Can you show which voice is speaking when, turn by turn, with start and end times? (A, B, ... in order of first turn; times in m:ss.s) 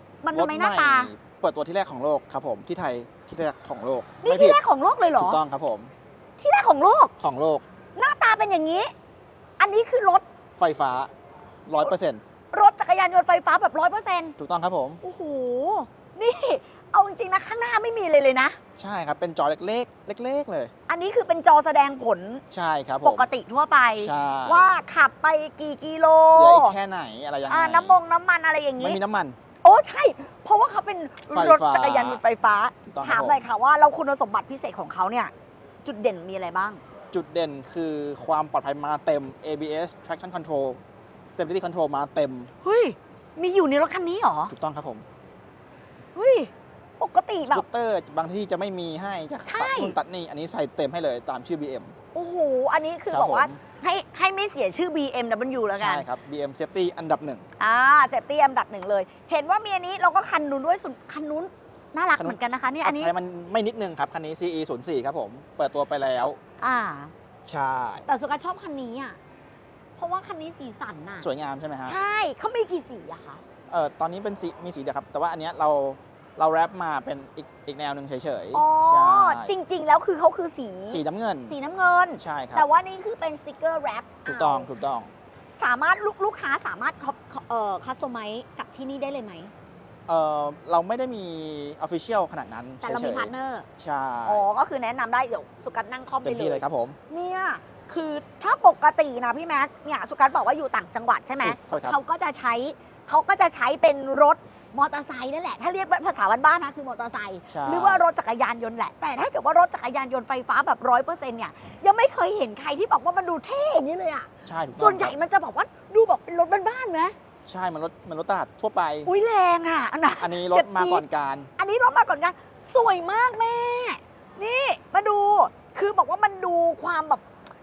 0:00.2-0:01.1 A
0:00.3-0:04.6 B
0:04.2-0:05.4 A
0:05.2-0:05.9 B
0:06.4-0:07.1 A
0:07.2-0:07.6 B
0:08.0-0:08.9 A
0:09.6-0:10.2 A
0:10.6-0:11.1 B
0:11.6-0:12.2 B
0:12.5-0:14.4 A
0:14.4-0:15.0 B
0:15.0-0:18.6 A
0:18.8-0:20.7 B
0:20.9-0:22.4 A
0:22.5-0:23.3 B
0:23.0-0:26.8 A
0:24.0-0:24.6 B
0:26.3-0:28.0 B
0:27.5-0:29.0 A
0:28.8-0:29.4 B
0:29.6-0:35.3 A
0:31.3-0:32.2 B
0:32.9-0:33.4 B
0:35.8-0:36.8 A
0:37.1-0:42.5 B
0:42.6-0:44.5 A
0:44.5-0:45.0 B
0:46.1-0:47.6 A
0:47.4-0:51.9 B
0:49.4-0:50.0 A
0:52.1-0:56.1 A
0:53.1-0:53.6 B
0:55.7-0:57.4 B
0:57.6-1:03.1 A
1:02.2-1:06.4 B
1:06.6-1:07.1 A
1:07.4-1:08.0 B
1:08.0-1:09.2 A
1:10.0-1:11.3 A
1:11.2-1:12.0 B
1:11.8-1:13.4 A
1:13.7-1:19.5 B
1:18.5-1:24.7 A
1:20.9-1:21.5 B
1:22.2-1:22.6 B
1:24.2-1:25.1 B
1:25.6-1:29.5 A
1:30.1-1:34.4 B
1:32.8-1:33.7 A
1:34.2-1:57.2 A
1:36.2-1:37.0 B
1:41.4-1:42.0 B
1:47.5-1:48.0 B
1:54.4-1:55.2 B
1:57.4-1:59.1 B
1:59.0-2:01.0 A
2:00.2-2:01.5 B
2:01.6-2:07.2 A